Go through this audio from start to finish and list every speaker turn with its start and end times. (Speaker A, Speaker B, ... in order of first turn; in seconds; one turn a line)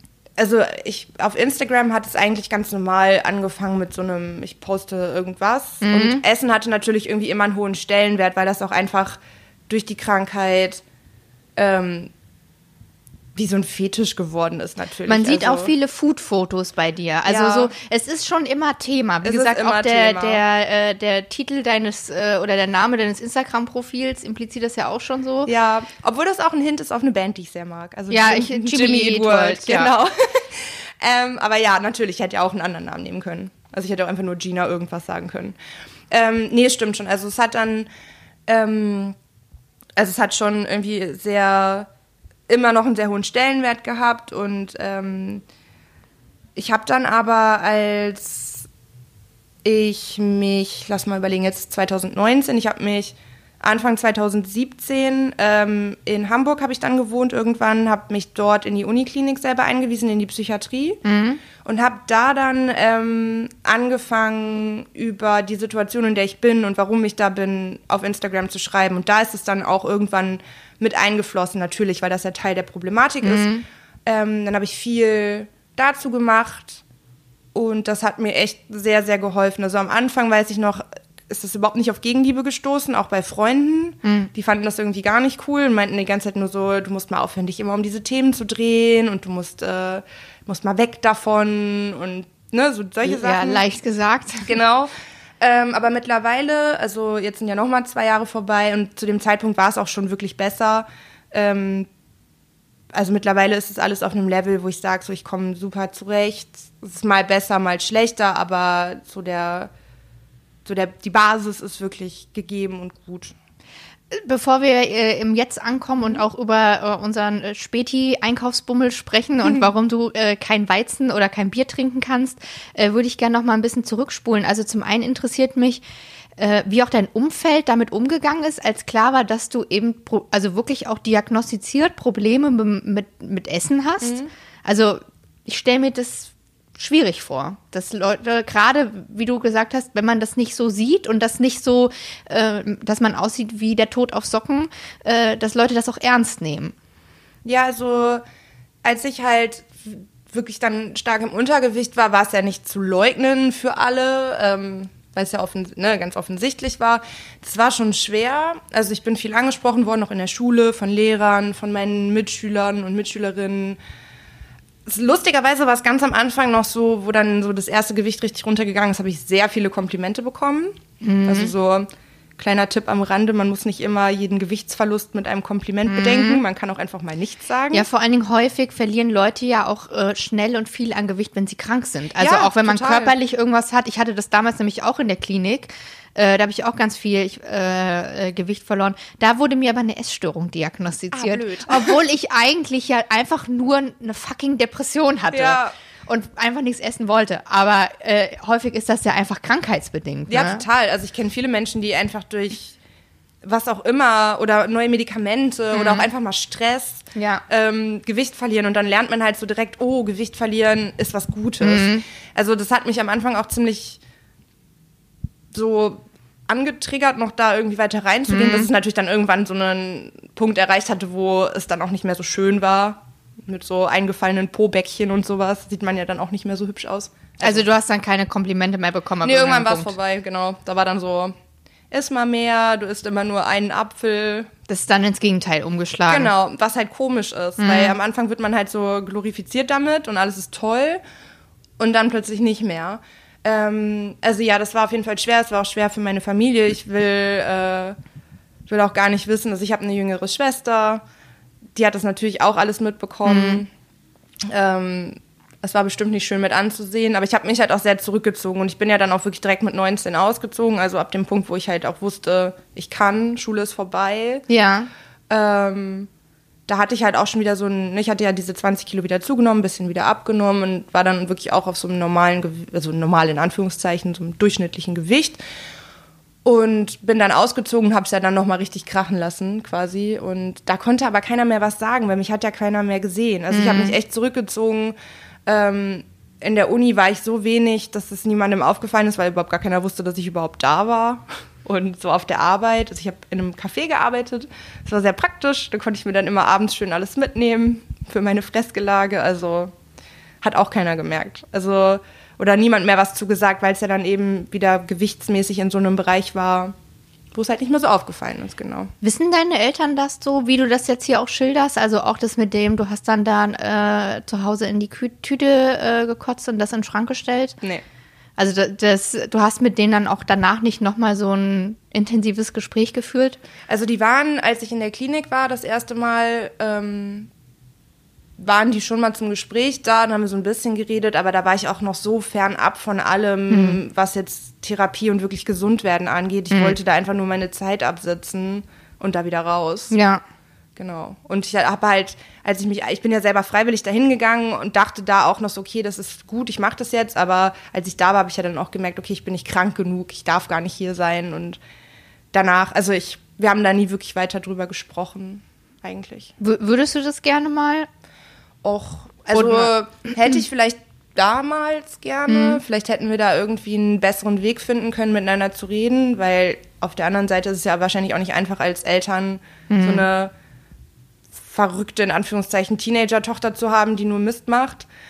Speaker A: 0.4-10.8
Speaker B: 5.8-6.2
Speaker A: 11.6-12.1
Speaker A: 13.3-15.7
Speaker B: 15.1-25.5
Speaker A: 17.3-17.7
Speaker A: 19.2-20.4
Speaker A: 25.5-35.6
Speaker B: 28.1-29.9
Speaker A: 36.1-37.9
Speaker A: 38.5-39.2
Speaker A: 40.0-41.9
Speaker A: 42.5-45.4
Speaker A: 46.6-48.7
Speaker A: 49.6-61.0
Speaker B: 61.0-61.4
Speaker A: 61.6-76.8
Speaker B: 73.2-73.6
Speaker A: 77.5-93.6
Speaker B: 84.0-84.3
Speaker B: 93.0-94.6
Speaker A: 94.5-101.9
Speaker A: 102.9-109.7
Speaker A: 110.7-113.3
Speaker B: 114.1-125.8
Speaker B: 126.4-146.7
Speaker A: 134.0-134.3
Speaker A: 147.4-148.2
Speaker A: 148.8-163.8
Speaker A: 164.9-177.9
Speaker B: 171.0-171.5
Speaker B: 175.9-176.4
Speaker B: 177.7-200.7
Speaker A: 182.2-183.2
Speaker A: 191.1-192.0
Speaker A: 195.3-195.7
Speaker A: 200.3-202.8
Speaker A: 203.4-214.0
Speaker B: 205.7-206.1
Speaker B: 207.2-207.4
Speaker B: 211.6-212.0
Speaker A: 215.5-227.7
Speaker B: 218.3-218.7
Speaker B: 227.4-229.9
Speaker A: 229.2-231.3
Speaker A: 231.9-234.5
Speaker B: 234.7-236.3
Speaker A: 236.1-241.0
Speaker B: 237.6-237.9
Speaker A: 241.8-248.0
Speaker A: 248.7-251.0
Speaker A: 251.8-253.7
Speaker B: 253.3-253.6
Speaker A: 254.5-264.4
Speaker B: 264.5-264.9
Speaker A: 265.3-266.1
Speaker A: 266.7-275.4
Speaker A: 276.4-284.9
Speaker B: 283.5-284.0
Speaker A: 285.5-299.7
Speaker A: 300.4-306.8
Speaker A: 307.3-308.9
Speaker B: 309.0-317.6
Speaker B: 318.4-323.4
Speaker A: 323.7-327.3
Speaker A: 328.4-339.9
Speaker B: 333.5-333.8
Speaker B: 336.5-336.8
Speaker B: 339.9-340.2
Speaker A: 340.8-351.6
Speaker A: 352.3-356.3
Speaker B: 356.4-357.9
Speaker A: 358.6-370.3
Speaker B: 359.3-359.7
Speaker B: 362.3-362.6
Speaker B: 369.7-370.1
Speaker A: 371.4-374.9